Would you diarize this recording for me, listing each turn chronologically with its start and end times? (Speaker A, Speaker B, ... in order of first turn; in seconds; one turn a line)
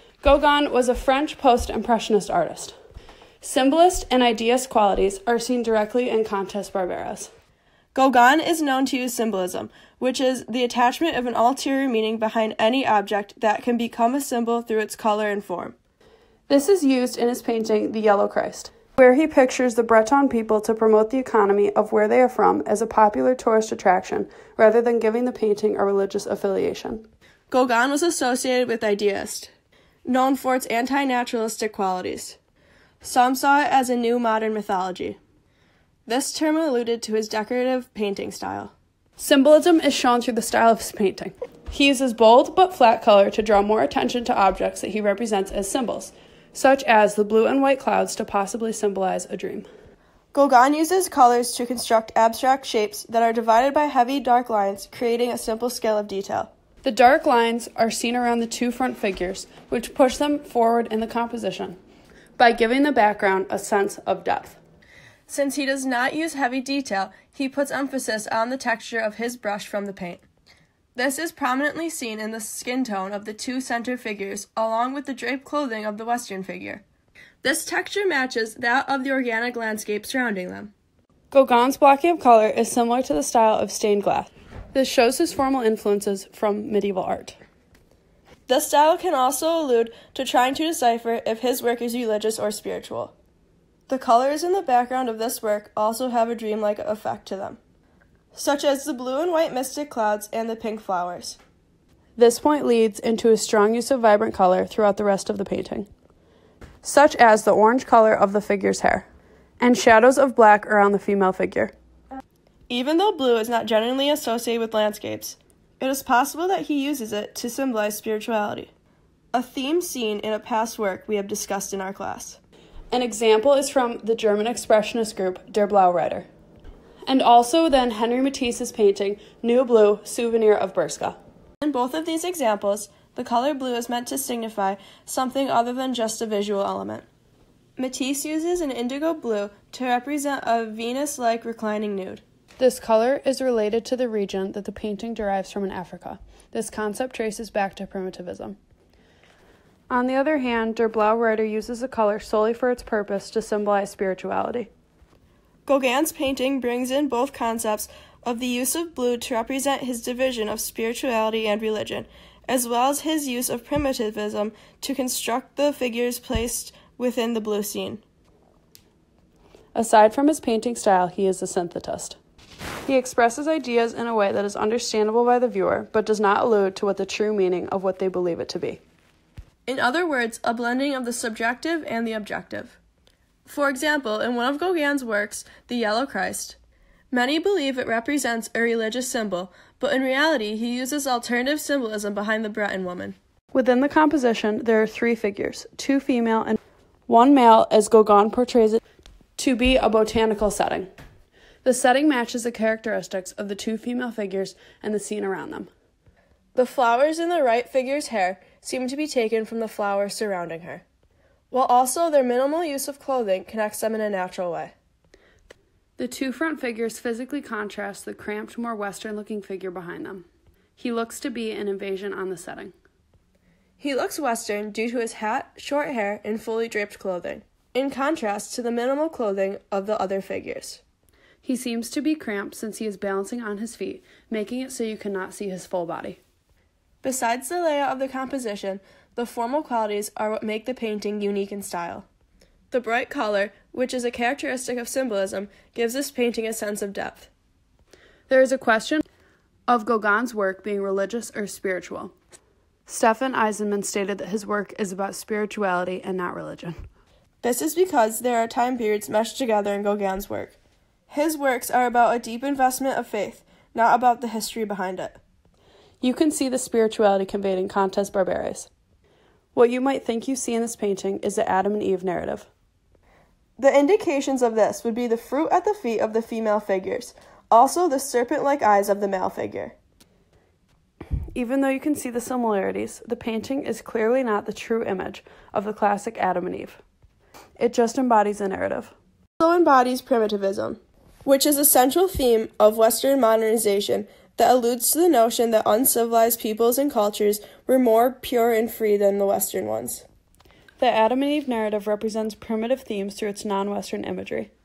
Speaker A: 0.2-2.8
Speaker A: 3.4-7.3
Speaker B: 7.9-15.8
Speaker A: 16.5-27.1
Speaker B: 27.5-29.5
Speaker B: 30.1-32.4
Speaker B: 33.0-35.2
Speaker B: 36.1-38.7
Speaker A: 39.2-49.7
Speaker B: 50.3-56.5
Speaker A: 56.8-61.8
Speaker A: 62.4-64.6
Speaker B: 65.3-70.2
Speaker B: 71.0-76.8
Speaker B: 77.4-80.7
Speaker A: 81.3-87.4
Speaker B: 88.5-93.2
Speaker B: 93.9-97.6
Speaker B: 98.3-101.4
Speaker A: 102.2-105.9
Speaker A: 106.8-109.1
Speaker A: 109.6-111.7
Speaker B: 112.7-118.7
Speaker B: 119.3-122.4
Speaker A: 122.9-126.3
Speaker A: 127.1-131.2
Speaker B: 131.6-137.1
Speaker B: 137.8-142.2
Speaker A: 142.6-148.6
Speaker A: 149.9-154.7
Speaker B: 155.7-168.0
Speaker A: 169.8-172.2
Speaker A: 172.9-178.8
Speaker B: 179.7-182.8
Speaker B: 183.5-186.6
Speaker B: 187.1-193.2
Speaker A: 193.5-198.8
Speaker A: 199.4-200.9
Speaker A: 201.6-205.7
Speaker B: 206.6-210.8
Speaker B: 211.5-214.7
Speaker A: 216.0-220.2
Speaker A: 220.8-222.7
Speaker B: 223.8-230.8
Speaker A: 231.4-236.2
Speaker B: 237.0-242.1
Speaker B: 242.7-247.3
Speaker A: 248.3-249.0
Speaker A: 249.7-252.1
Speaker A: 252.9-256.8
Speaker B: 257.4-260.6
Speaker B: 261.1-265.2
Speaker A: 266.0-268.7
Speaker A: 269.5-272.5
Speaker B: 273.6-279.8
Speaker A: 281.4-286.8
Speaker A: 287.6-288.9
Speaker B: 289.4-300.1
Speaker A: 300.8-304.5